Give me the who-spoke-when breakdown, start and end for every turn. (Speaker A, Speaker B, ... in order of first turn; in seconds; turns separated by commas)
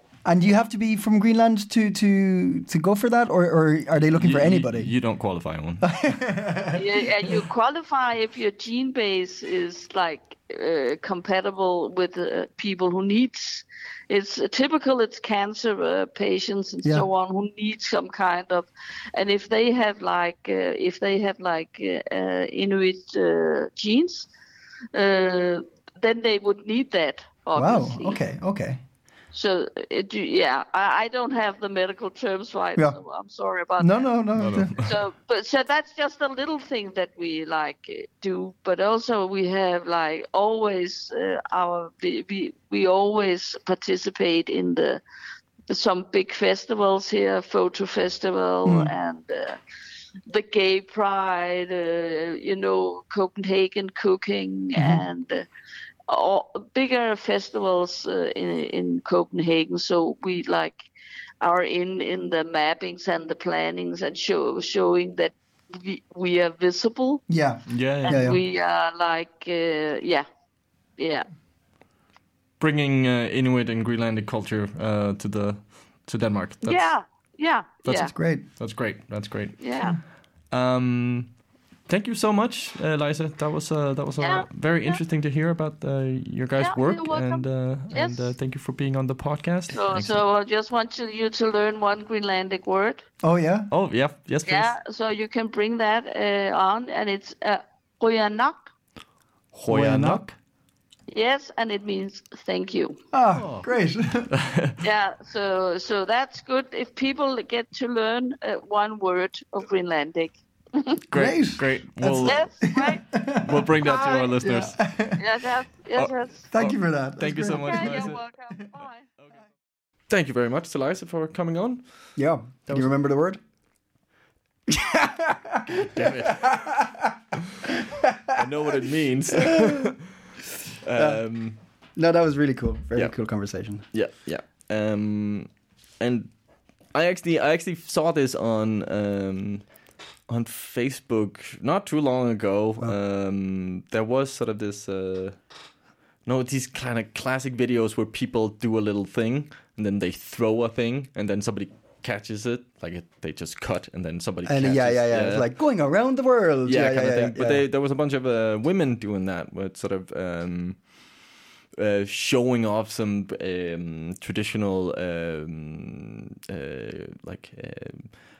Speaker A: 0.2-4.9, Speaker B: 4.1-5.9, Speaker A: 5.8-7.0, Speaker C: 6.7-24.3, Speaker C: 24.9-28.2, Speaker A: 27.5-28.8, Speaker C: 29.3-34.1, Speaker A: 33.8-34.8, Speaker B: 34.3-35.0, Speaker C: 34.8-45.0, Speaker C: 45.7-49.6, Speaker A: 48.6-48.9, Speaker C: 50.3-55.5, Speaker A: 54.8-55.0, Speaker C: 56.1-60.8, Speaker C: 61.4-67.2, Speaker A: 67.3-68.4, Speaker B: 67.7-68.3, Speaker C: 68.0-70.3, Speaker C: 71.0-71.3, Speaker B: 72.6-76.9, Speaker C: 76.6-78.1, Speaker B: 77.8-79.6, Speaker A: 78.1-78.5, Speaker C: 79.6-80.0, Speaker B: 80.5-81.3, Speaker B: 81.9-90.2, Speaker C: 84.2-85.0, Speaker C: 86.6-88.3, Speaker C: 89.7-93.0, Speaker A: 93.2-93.7, Speaker B: 93.7-94.7, Speaker C: 94.5-98.7, Speaker B: 99.5-100.3, Speaker A: 99.7-100.3, Speaker C: 101.1-103.0, Speaker A: 103.1-104.3, Speaker B: 103.3-103.7, Speaker B: 104.3-104.8, Speaker C: 104.8-111.0, Speaker B: 111.1-112.5, Speaker A: 111.1-113.7, Speaker C: 112.2-113.1, Speaker B: 113.4-114.8, Speaker C: 113.8-116.5, Speaker A: 114.4-115.3, Speaker B: 116.0-118.2, Speaker A: 116.5-118.1, Speaker C: 117.4-119.1, Speaker B: 120.1-121.8, Speaker A: 122.2-123.4, Speaker A: 124.7-128.8, Speaker B: 125.9-126.6, Speaker B: 128.3-130.1, Speaker A: 129.3-129.9, Speaker B: 130.8-131.6, Speaker A: 130.9-131.2, Speaker A: 131.9-133.8, Speaker B: 133.9-136.3, Speaker B: 136.9-139.6, Speaker B: 140.3-145.4, Speaker B: 146.2-155.5, Speaker A: 154.4-157.7, Speaker B: 156.6-160.8, Speaker B: 161.8-168.1